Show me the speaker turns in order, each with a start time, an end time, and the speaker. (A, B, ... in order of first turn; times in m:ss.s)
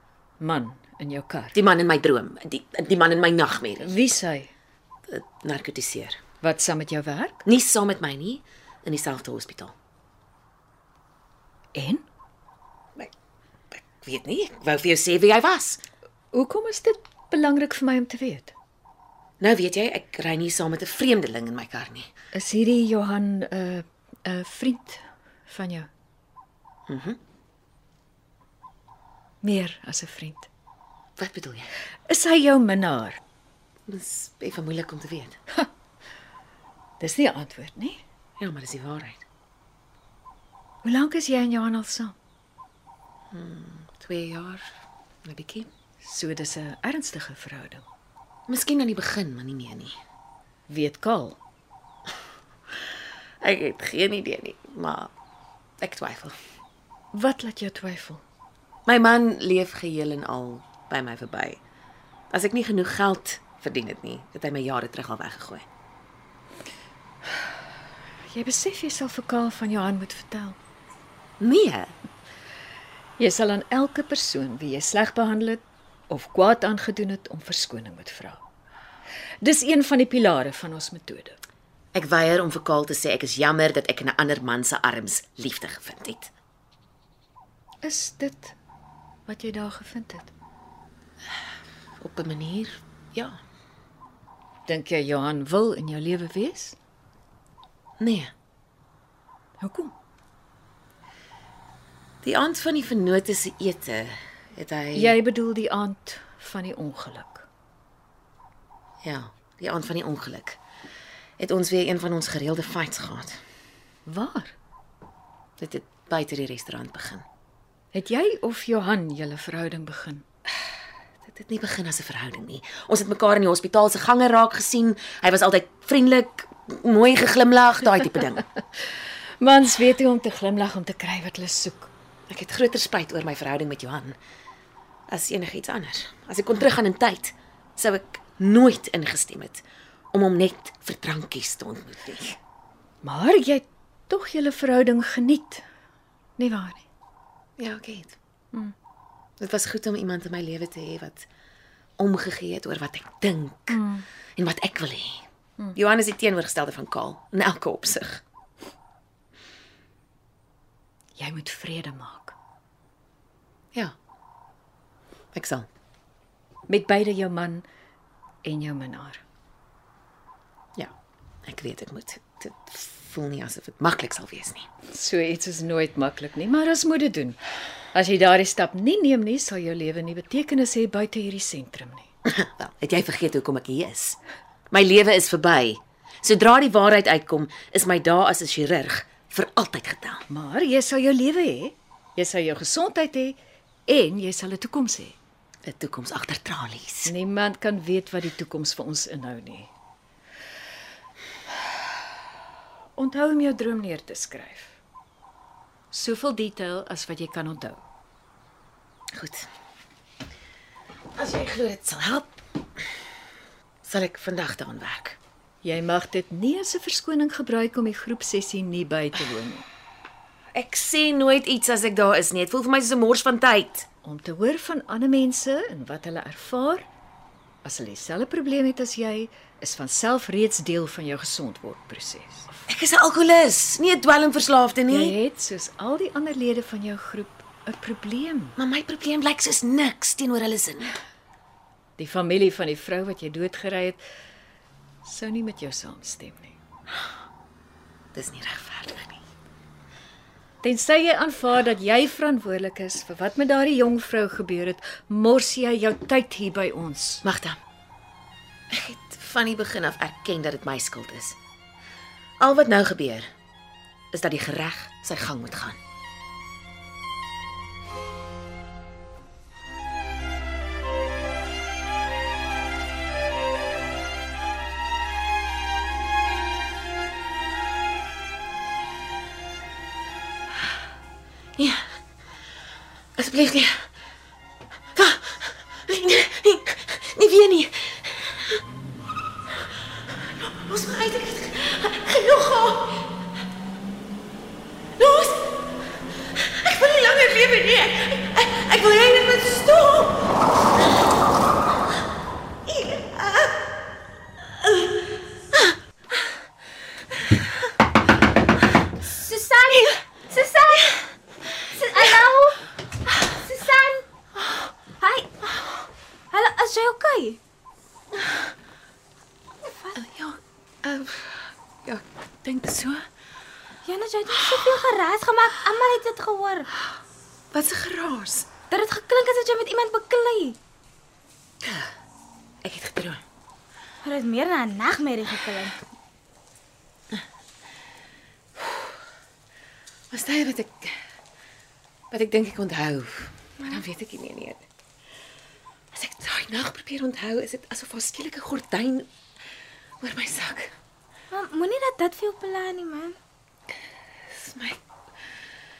0:00.4-0:01.6 A
0:01.5-0:04.0 B
0:03.8-0:04.5 A
0:05.1-0:06.2 B
0:06.4-0:07.4 A
0:07.4-0:09.7 B
0:11.7-0:12.0 A
0:13.7-0:15.8 B
0:16.3-0:18.5 A
0:19.4-0:22.1 B
0:22.3-0:25.9 A
0:26.9-0:27.2 B
0:29.4-0:30.5 A
0:31.2-0:31.7 B
0:32.1-0:33.2 A
0:33.9-0:35.4 B
0:37.0-0:38.0 A
0:38.4-0:39.2 B
0:40.8-0:42.2 A
0:43.3-0:44.7 B
0:45.2-0:45.7 B
0:46.0-0:47.8 A
0:48.5-0:50.0 B
0:50.7-0:51.4 A
0:53.4-0:55.1 B
0:55.8-0:56.4 B
0:57.1-0:58.2 A
0:58.9-1:01.6 B
1:02.3-1:05.6 B
1:08.3-1:10.6 A
1:11.4-1:11.9 B
1:13.2-1:18.4 A
1:19.4-1:21.4 A
1:21.9-1:26.3 B
1:27.8-1:28.6 A
1:29.3-1:30.3 A
1:32.0-1:33.4 B
1:34.7-1:36.8 A
1:38.0-1:38.3 B
1:39.6-1:39.9 A
1:42.2-1:45.2 B
1:45.0-1:47.5 A
1:49.0-1:50.6 B
1:51.4-1:53.4 B
1:54.1-1:54.5 A
1:55.6-1:57.2 B
1:57.9-2:00.2 A
2:01.3-2:08.4 B
2:09.4-2:11.9 A
2:12.3-2:14.2 B
2:15.1-2:22.4 B
2:23.0-2:25.6 A
2:26.4-2:26.8 A
2:27.6-2:28.2 B
2:29.4-2:31.3 B
2:32.0-2:33.8 B
2:33.7-2:34.0 A
2:34.4-2:35.2 B
2:35.7-2:38.2 B
2:41.2-2:42.4 A
2:45.3-2:45.7 B
2:46.7-2:47.7 A
2:48.4-2:49.2 A
2:51.5-2:54.7 B
2:54.9-2:57.4 A
2:57.9-3:02.1 A
3:02.2-3:04.2 B
3:04.7-3:10.2 B
3:10.3-3:15.2 A
3:15.6-3:17.1 B
3:17.0-3:19.7 A
3:23.0-3:24.8 A
3:25.9-3:27.8 A
3:29.2-3:29.5 B
3:31.2-3:32.3 B
3:33.8-3:35.2 B
3:35.6-3:39.7 A
3:40.5-3:43.9 B
3:44.0-3:46.8 A
3:47.6-3:52.5 A
3:52.7-3:55.2 B
3:54.9-3:58.6 A
3:58.6-4:01.0 B
4:02.0-4:04.0 A
4:05.0-4:06.6 A
4:08.1-4:09.2 B
4:10.6-4:17.2 A
4:17.2-4:17.6 B
4:18.7-4:21.4 B
4:22.4-4:23.3 B
4:24.1-4:25.8 B
4:41.6-4:41.9 B
4:43.2-4:43.8 B
4:45.0-4:48.6 B
4:50.2-4:53.1 B
4:55.0-4:55.8 B
4:56.4-5:00.3 B
5:02.7-5:03.6 B
5:09.2-5:11.0 C
5:11.7-5:12.7 C
5:13.3-5:14.0 C
5:15.0-5:15.3 C
5:16.3-5:17.4 C
5:19.6-5:20.0 C
5:20.0-5:23.1 B
5:23.8-5:26.7 C
5:24.3-5:24.8 B
5:27.5-5:28.5 B
5:28.7-5:30.6 C
5:31.6-5:31.9 B
5:32.6-5:33.2 B
5:34.0-5:35.8 C
5:40.1-5:41.0 B
5:42.1-5:44.6 B
5:45.9-5:49.1 B
5:50.0-5:50.7 B
5:51.3-5:53.2 C
5:54.3-5:54.8 B